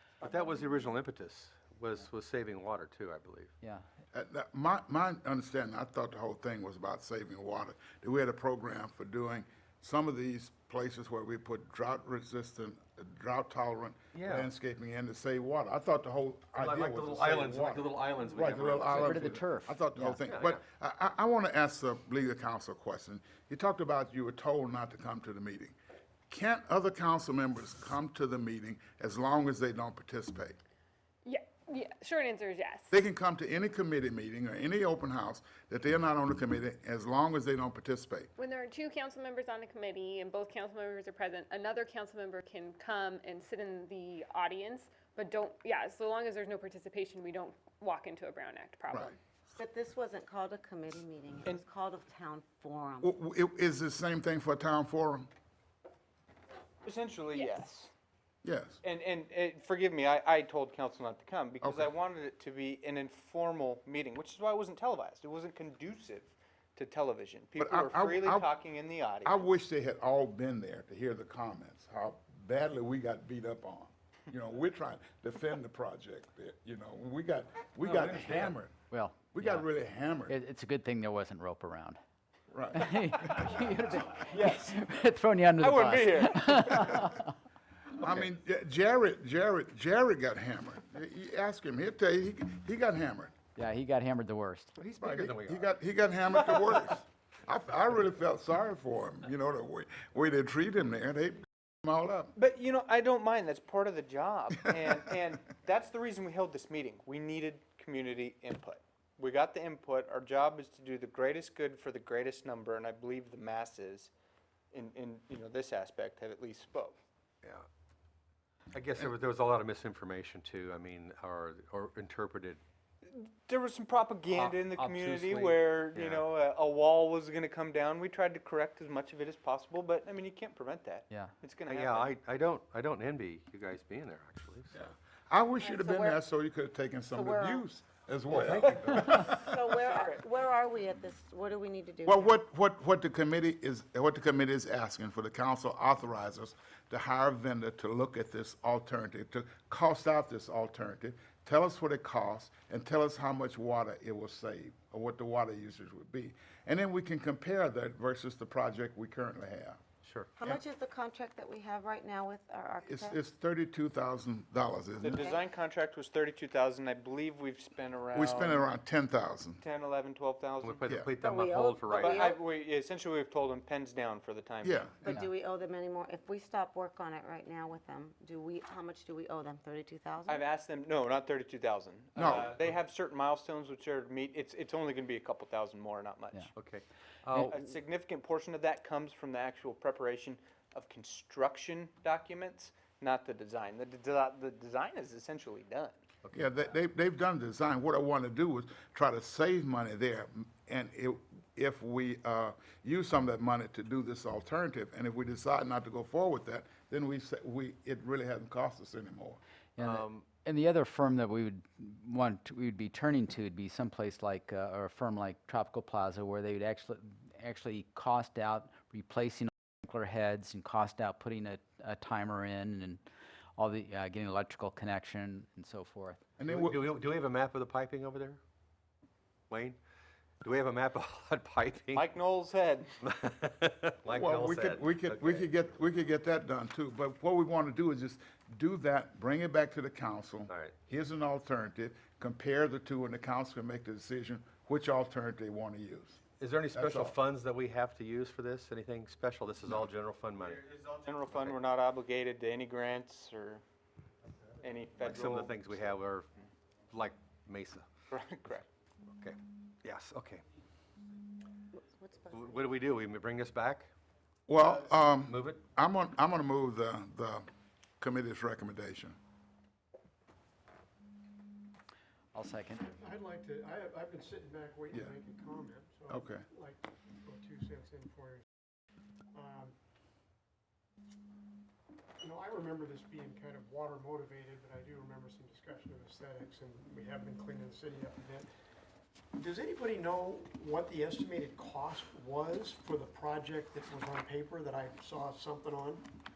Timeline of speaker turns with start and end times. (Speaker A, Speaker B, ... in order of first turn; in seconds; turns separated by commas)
Speaker A: 0.2-3.5, Speaker B: 4.1-25.8, Speaker A: 14.1-14.4, Speaker A: 16.6-18.9, Speaker C: 18.8-20.2, Speaker A: 20.3-20.6, Speaker B: 26.3-30.6, Speaker D: 31.2-32.9, Speaker B: 32.9-38.3, Speaker D: 38.4-49.1, Speaker E: 49.5-53.1, Speaker B: 53.0-55.3, Speaker F: 56.8-57.9, Speaker B: 58.4-58.8, Speaker F: 58.8-69.5, Speaker B: 61.6-61.9, Speaker B: 67.6-68.5, Speaker B: 69.2-78.8, Speaker A: 77.9-78.5, Speaker C: 78.8-79.7, Speaker B: 79.3-80.3, Speaker C: 80.3-82.0, Speaker B: 82.5-83.4, Speaker C: 82.7-87.3, Speaker F: 84.3-84.8, Speaker F: 85.6-87.0, Speaker B: 88.0-93.3, Speaker C: 93.5-94.7, Speaker A: 94.8-95.7, Speaker B: 95.0-102.3, Speaker F: 96.3-96.9, Speaker F: 102.3-114.1, Speaker F: 114.7-117.0, Speaker A: 118.7-122.6, Speaker F: 123.1-132.1, Speaker C: 124.3-125.6, Speaker A: 131.7-134.7, Speaker B: 134.7-139.6, Speaker E: 135.6-136.2, Speaker E: 137.1-137.6, Speaker A: 138.3-139.0, Speaker E: 138.9-142.3, Speaker F: 139.8-140.2, Speaker B: 142.0-159.8, Speaker E: 160.4-163.2, Speaker B: 162.8-165.2, Speaker F: 165.0-168.7, Speaker E: 165.1-165.4, Speaker B: 168.1-169.6, Speaker F: 169.6-170.8, Speaker A: 170.6-172.1, Speaker E: 171.2-172.4, Speaker F: 171.9-174.9, Speaker B: 174.6-174.9, Speaker E: 175.0-180.4, Speaker F: 180.3-186.5, Speaker B: 182.2-182.6, Speaker A: 186.5-187.5, Speaker C: 187.3-187.5, Speaker F: 187.4-196.0, Speaker B: 196.3-209.4, Speaker C: 209.8-223.0, Speaker C: 223.6-226.3, Speaker B: 226.4-226.9, Speaker A: 226.5-228.4, Speaker A: 229.5-229.8, Speaker A: 230.4-232.0, Speaker F: 231.9-232.9, Speaker A: 233.2-234.9, Speaker B: 234.1-246.2, Speaker A: 240.5-240.7, Speaker A: 246.4-250.6, Speaker B: 246.7-247.2, Speaker F: 250.5-253.6, Speaker F: 254.6-255.7, Speaker A: 255.0-256.3, Speaker A: 256.9-257.9, Speaker F: 258.1-258.6, Speaker A: 259.1-260.4, Speaker E: 261.8-262.7, Speaker A: 262.3-263.9, Speaker B: 264.5-267.4, Speaker B: 268.0-269.1, Speaker C: 272.3-272.8, Speaker G: 272.7-278.4, Speaker B: 276.1-276.4, Speaker G: 279.3-279.7, Speaker G: 282.2-288.5, Speaker G: 289.3-296.1